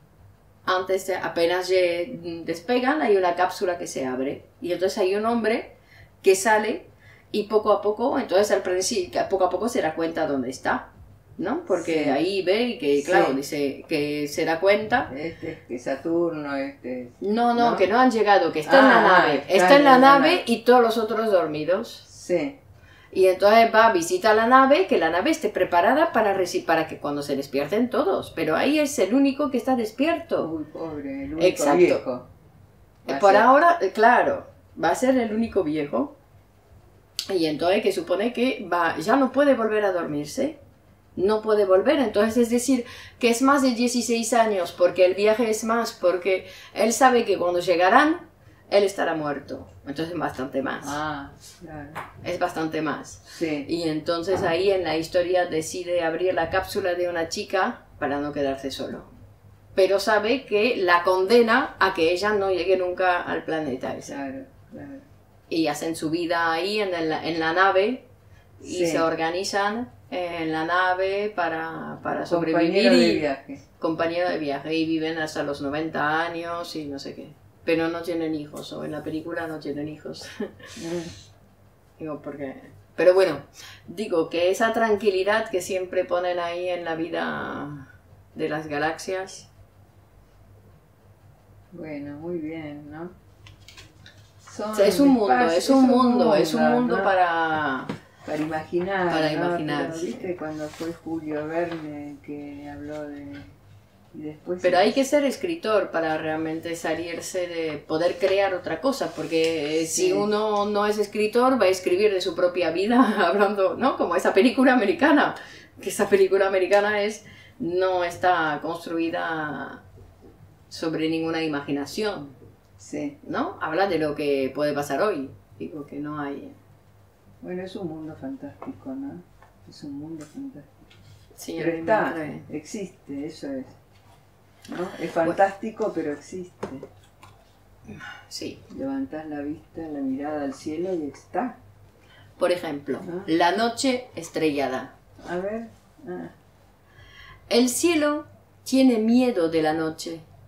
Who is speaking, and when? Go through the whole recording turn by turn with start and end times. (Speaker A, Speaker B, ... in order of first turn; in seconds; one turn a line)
Speaker A: 0.6-15.1
Speaker B: 11.7-12.2
Speaker B: 13.0-13.4
Speaker B: 15.1-17.9
Speaker A: 17.2-22.1
Speaker B: 18.6-20.4
Speaker B: 22.1-22.6
Speaker A: 23.1-30.5
Speaker B: 30.4-32.3
Speaker A: 31.4-32.0
Speaker B: 33.1-33.5
Speaker A: 33.1-36.1
Speaker A: 37.3-40.6
Speaker A: 41.1-51.0
Speaker B: 50.8-52.0
Speaker A: 52.2-59.1
Speaker B: 53.3-53.7
Speaker A: 59.7-64.2
Speaker B: 64.0-65.1
Speaker A: 65.5-68.1
Speaker A: 68.6-73.2
Speaker B: 68.6-69.1
Speaker B: 72.1-73.6
Speaker A: 73.8-80.7
Speaker B: 80.8-81.1
Speaker A: 82.0-89.5
Speaker B: 91.7-93.1
Speaker B: 94.4-97.1
Speaker A: 94.7-97.9
Speaker B: 98.2-103.5
Speaker A: 99.1-100.3
Speaker B: 104.1-104.9
Speaker A: 104.6-119.8
Speaker B: 109.9-110.3
Speaker A: 120.7-122.3
Speaker B: 122.8-123.2
Speaker A: 123.2-126.6
Speaker B: 127.4-130.9
Speaker A: 131.4-132.5
Speaker B: 131.6-133.8
Speaker B: 134.7-136.9
Speaker A: 137.9-138.6
Speaker B: 138.7-141.6
Speaker A: 142.4-144.9
Speaker B: 143.0-143.3
Speaker B: 145.2-146.3
Speaker A: 147.5-150.3